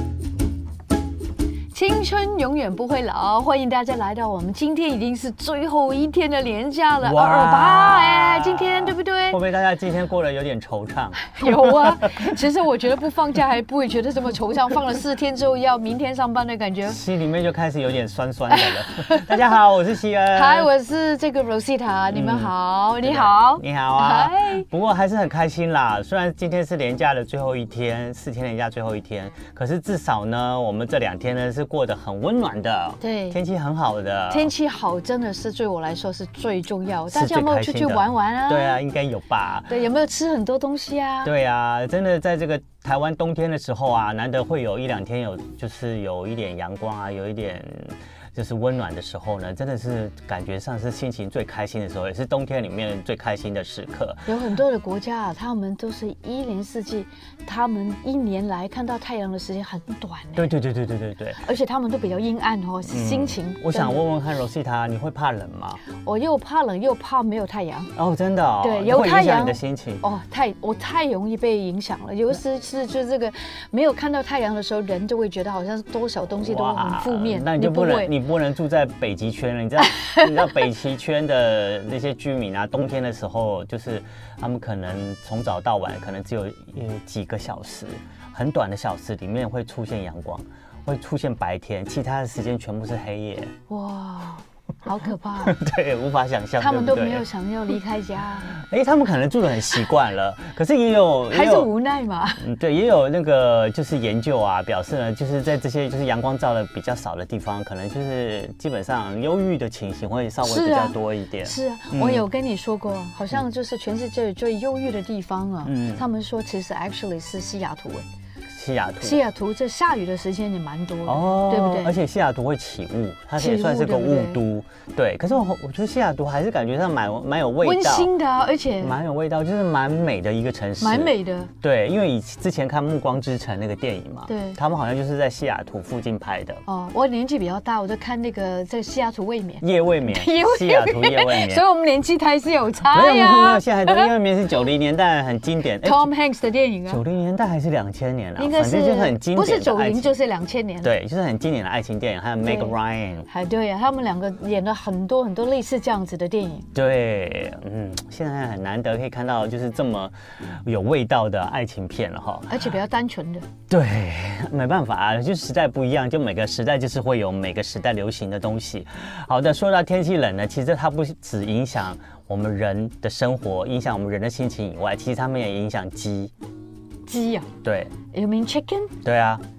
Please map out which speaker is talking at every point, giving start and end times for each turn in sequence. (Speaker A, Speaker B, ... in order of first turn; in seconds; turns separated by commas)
Speaker A: 1.7-9.4, Speaker B: 7.0-12.3, Speaker A: 11.2-17.0, Speaker B: 16.9-20.7, Speaker A: 18.5-19.4, Speaker A: 20.3-24.6, Speaker B: 22.1-34.5, Speaker A: 33.0-33.4, Speaker A: 34.3-38.8, Speaker B: 37.1-39.8, Speaker A: 39.7-41.3, Speaker B: 41.2-54.3, Speaker A: 54.2-60.5, Speaker B: 60.4-61.4, Speaker A: 61.4-64.0, Speaker B: 62.9-65.8, Speaker A: 66.0-67.9, Speaker B: 67.9-70.0, Speaker A: 68.6-78.1, Speaker B: 76.3-93.5, Speaker A: 79.8-80.3, Speaker A: 93.7-95.6, Speaker B: 95.4-97.3, Speaker A: 96.6-98.6, Speaker B: 98.5-101.7, Speaker A: 101.3-102.4, Speaker B: 102.4-112.2, Speaker A: 110.4-118.0, Speaker B: 115.6-116.0, Speaker B: 118.5-119.2, Speaker A: 119.0-122.0, Speaker B: 121.0-128.1, Speaker A: 123.4-124.4, Speaker A: 127.6-128.9, Speaker B: 128.8-136.6, Speaker A: 130.8-131.5, Speaker A: 134.3-134.6, Speaker A: 136.7-144.1, Speaker B: 139.6-141.6, Speaker B: 142.9-146.1, Speaker A: 145.8-147.0, Speaker B: 146.9-150.2, Speaker A: 148.4-150.9, Speaker B: 150.8-153.3, Speaker A: 152.4-152.7, Speaker A: 153.3-156.7, Speaker B: 156.7-162.7, Speaker A: 162.5-163.5, Speaker B: 163.7-176.3, Speaker A: 177.1-177.5, Speaker B: 177.6-177.9, Speaker A: 178.1-178.9, Speaker B: 179.0-179.4